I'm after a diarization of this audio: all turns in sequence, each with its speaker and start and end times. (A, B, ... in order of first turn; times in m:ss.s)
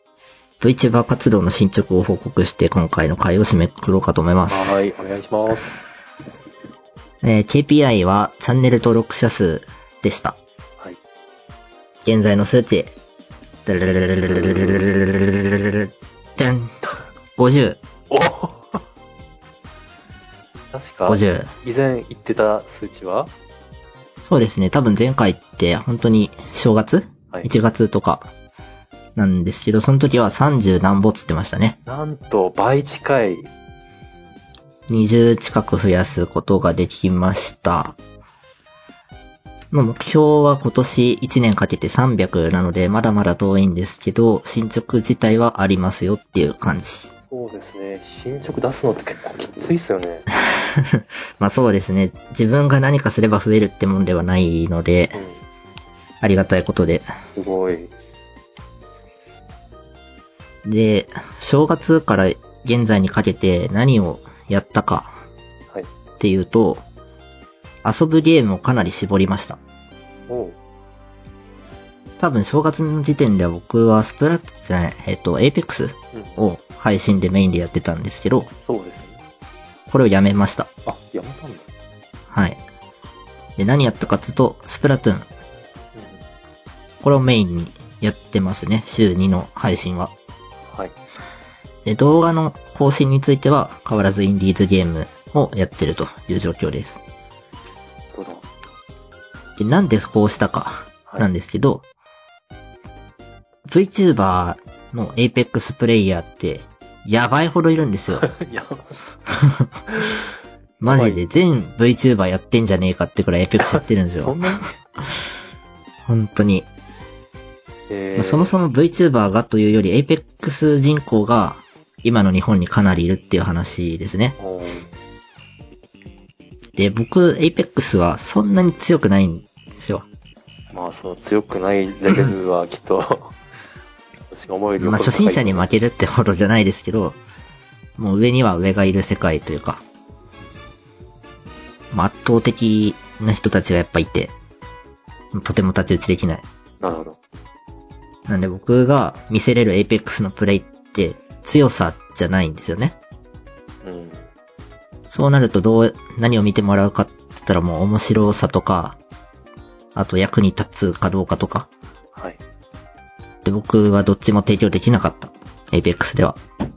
0:00.6-0:04.8 A
0:04.5-0:05.8 B
0:07.2-0:10.4 A
0:12.0-0:12.9 A
0:13.6-0:16.8 A
0:14.3-0:14.8 B
0:17.4-0:17.8 A
0:18.1-0:18.8 B
0:20.7-0:23.3 B
0:21.0-0:21.5 A
0:24.2-0:28.3 A
0:29.2-0:31.8 A
0:31.8-0:33.5 B
0:34.9-0:38.0 A
0:39.7-0:47.1 A
0:47.3-0:50.3 B
0:50.5-0:55.2 A
0:55.1-0:55.4 B
0:56.2-0:57.0 A
0:57.4-0:57.9 B
1:00.6-1:05.1 A
1:06.2-1:06.8 A
1:07.8-1:09.6 A
1:10.3-1:10.6 B
1:12.2-1:18.5 A
1:16.1-1:16.4 B
1:18.6-1:19.2 B
1:19.9-1:20.7 A
1:20.8-1:21.7 B
1:22.3-1:22.6 A
1:23.6-1:25.3 A
1:25.9-1:26.2 B
1:27.0-1:30.1 A
1:31.8-1:37.0 A
1:38.1-1:38.4 B
1:39.6-1:41.8 A
1:43.7-1:48.3 A
1:48.2-1:48.9 B
1:49.3-1:49.7 A
1:49.9-1:50.3 B
1:50.8-1:54.4 A
1:50.8-1:51.2 B
1:53.6-1:54.7 B
1:56.1-1:56.7 A
1:57.9-1:58.5 B
1:58.2-2:04.3 A
2:04.4-2:04.9 B
2:06.8-2:10.0 A
2:10.7-2:13.4 B
2:14.3-2:15.7 B
2:14.8-2:17.2 A
2:18.0-2:19.8 A
2:21.9-2:24.3 A
2:25.3-2:26.4 A
2:26.8-2:27.2 B
2:28.3-2:33.0 A
2:33.8-2:34.3 B
2:35.1-2:39.0 A
2:39.9-2:41.7 A
2:42.1-2:42.4 B
2:43.4-2:46.4 A